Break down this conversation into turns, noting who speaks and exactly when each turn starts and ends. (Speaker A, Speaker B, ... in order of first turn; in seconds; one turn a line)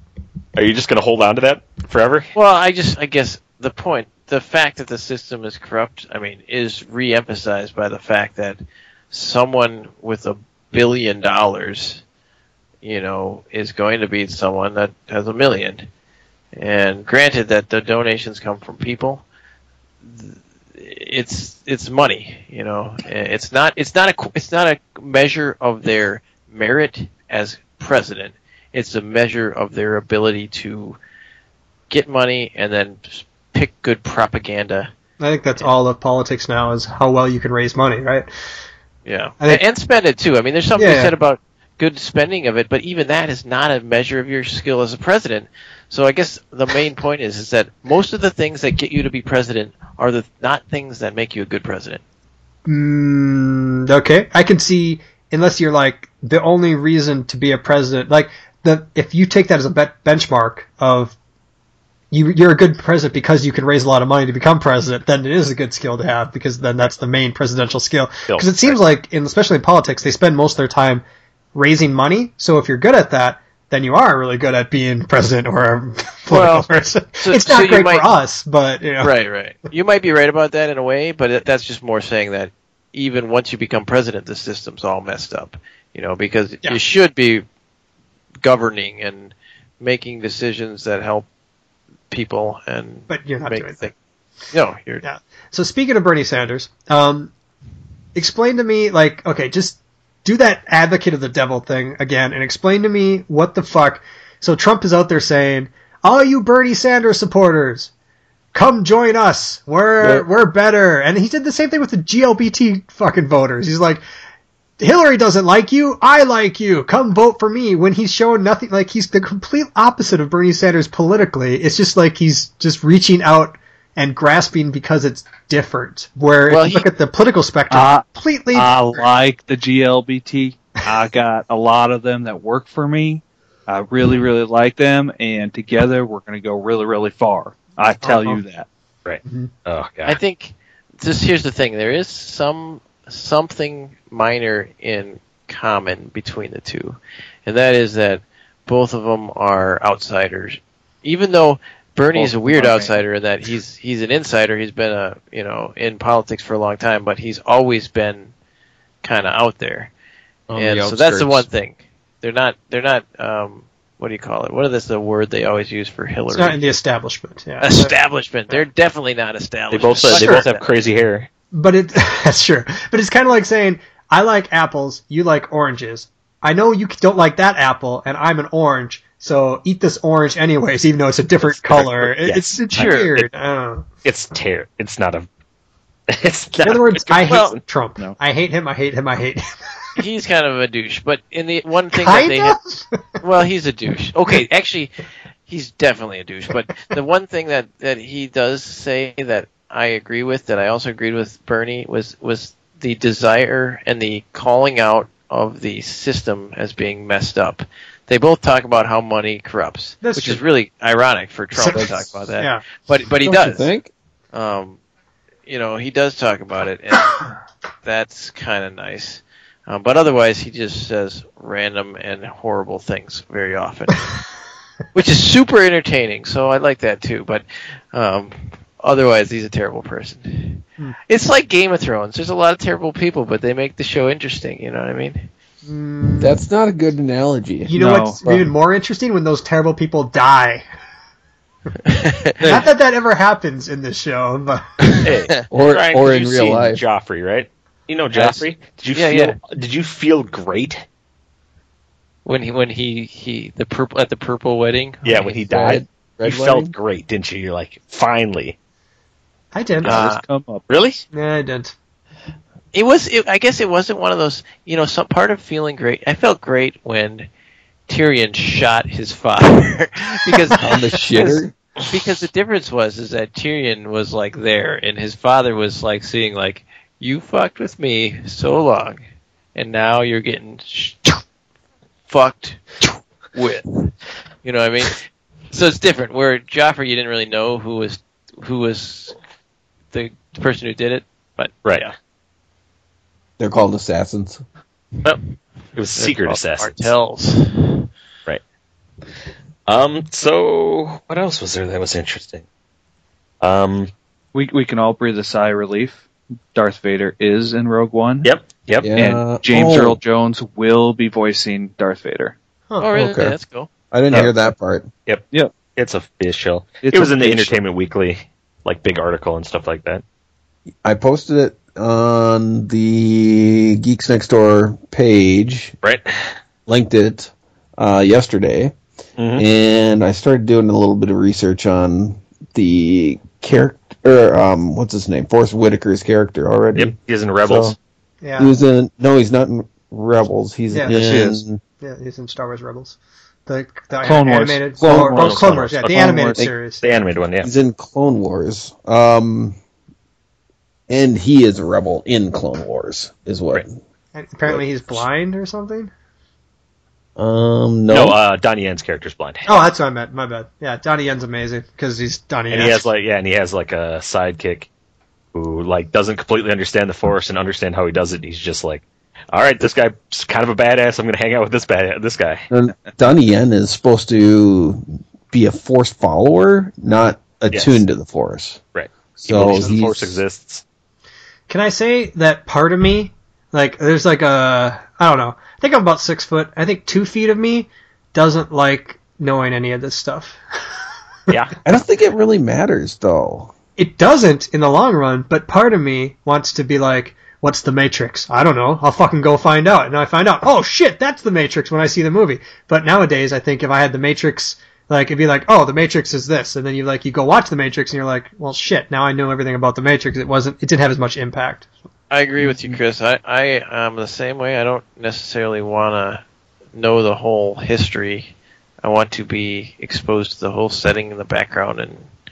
Speaker A: 0.6-2.3
Speaker B: 2.3-12.0
Speaker B: 12.8-15.9
Speaker B: 16.6-19.2
Speaker B: 20.0-31.0
Speaker B: 31.9-34.9
Speaker C: 35.2-38.3
Speaker B: 39.1-52.0
Speaker C: 40.8-41.1
Speaker C: 52.7-61.1
Speaker C: 62.1-71.0
Speaker A: 68.3-68.8
Speaker C: 71.5-79.1
Speaker B: 76.3-76.7
Speaker B: 77.2-78.1
Speaker B: 79.0-87.5
Speaker B: 88.4-91.3
Speaker B: 92.1-93.9
Speaker C: 93.1-93.9
Speaker B: 94.5-95.0
Speaker C: 95.0-97.3
Speaker C: 98.2-107.9
Speaker C: 108.5-114.0
Speaker D: 110.0-110.3
Speaker C: 114.8-129.1
Speaker B: 126.5-126.9
Speaker E: 127.7-138.7
Speaker C: 138.0-138.4
Speaker A: 139.1-140.2
Speaker B: 140.1-158.3
Speaker E: 152.1-153.0
Speaker B: 159.0-159.9
Speaker D: 160.5-161.5
Speaker B: 160.6-166.6
Speaker C: 166.3-167.9
Speaker B: 167.6-170.7
Speaker A: 169.7-171.3
Speaker C: 170.1-170.4
Speaker C: 171.5-183.9
Speaker A: 181.4-183.3
Speaker B: 182.8-183.1
Speaker A: 184.0-185.3
Speaker A: 186.1-187.6
Speaker C: 186.6-189.5
Speaker B: 190.0-192.6
Speaker C: 191.9-193.0
Speaker B: 193.2-194.9
Speaker B: 195.5-213.7
Speaker C: 210.0-210.4
Speaker C: 211.6-212.6
Speaker D: 213.2-213.9
Speaker B: 214.3-214.8
Speaker B: 215.5-217.2
Speaker B: 217.8-224.1
Speaker B: 224.9-235.3
Speaker C: 235.7-236.4
Speaker D: 236.2-237.7
Speaker C: 237.7-240.6
Speaker E: 237.7-238.2
Speaker D: 238.2-238.5
Speaker B: 241.8-242.6
Speaker C: 242.4-244.7
Speaker B: 244.9-245.4
Speaker A: 245.0-250.8
Speaker D: 245.5-246.8
Speaker B: 248.2-249.4
Speaker B: 252.2-255.4
Speaker A: 255.0-258.6
Speaker D: 255.5-256.7
Speaker C: 259.5-260.0
Speaker B: 259.9-260.2
Speaker E: 259.9-260.6
Speaker A: 260.7-261.0
Speaker C: 261.1-261.7
Speaker B: 262.7-267.3
Speaker B: 267.9-279.0
Speaker D: 270.5-271.6
Speaker B: 279.6-281.2
Speaker B: 282.1-282.7
Speaker B: 283.4-289.2
Speaker B: 289.9-291.9
Speaker D: 293.4-294.4
Speaker A: 295.8-296.9
Speaker B: 296.0-297.9
Speaker A: 299.7-302.4
Speaker A: 303.4-303.9
Speaker E: 304.3-308.3
Speaker A: 308.2-308.9
Speaker D: 308.8-310.0
Speaker E: 309.0-312.4
Speaker B: 312.8-313.7
Speaker D: 312.9-313.4
Speaker D: 313.9-314.9
Speaker A: 315.8-320.0
Speaker E: 316.8-317.6
Speaker D: 320.8-325.7
Speaker A: 325.8-326.3
Speaker D: 326.7-328.7
Speaker A: 329.2-329.4
Speaker D: 329.4-337.8
Speaker A: 336.8-337.8
Speaker C: 338.2-338.5
Speaker D: 338.4-341.6
Speaker C: 340.7-341.1
Speaker E: 341.1-341.4
Speaker C: 341.8-346.8
Speaker E: 344.0-346.4
Speaker D: 344.8-345.7
Speaker A: 345.0-345.8
Speaker A: 346.8-347.5
Speaker D: 347.4-349.6
Speaker D: 350.9-353.7
Speaker C: 354.1-355.9
Speaker D: 357.2-358.2
Speaker A: 357.9-359.6
Speaker C: 359.5-362.9
Speaker A: 362.5-364.7
Speaker A: 365.3-372.4
Speaker D: 372.5-378.6
Speaker A: 377.5-377.8
Speaker A: 378.7-380.6
Speaker D: 379.2-380.2
Speaker C: 381.5-390.4
Speaker D: 391.6-393.5
Speaker C: 393.8-411.7
Speaker B: 412.1-416.2
Speaker B: 416.8-418.3
Speaker B: 418.8-422.1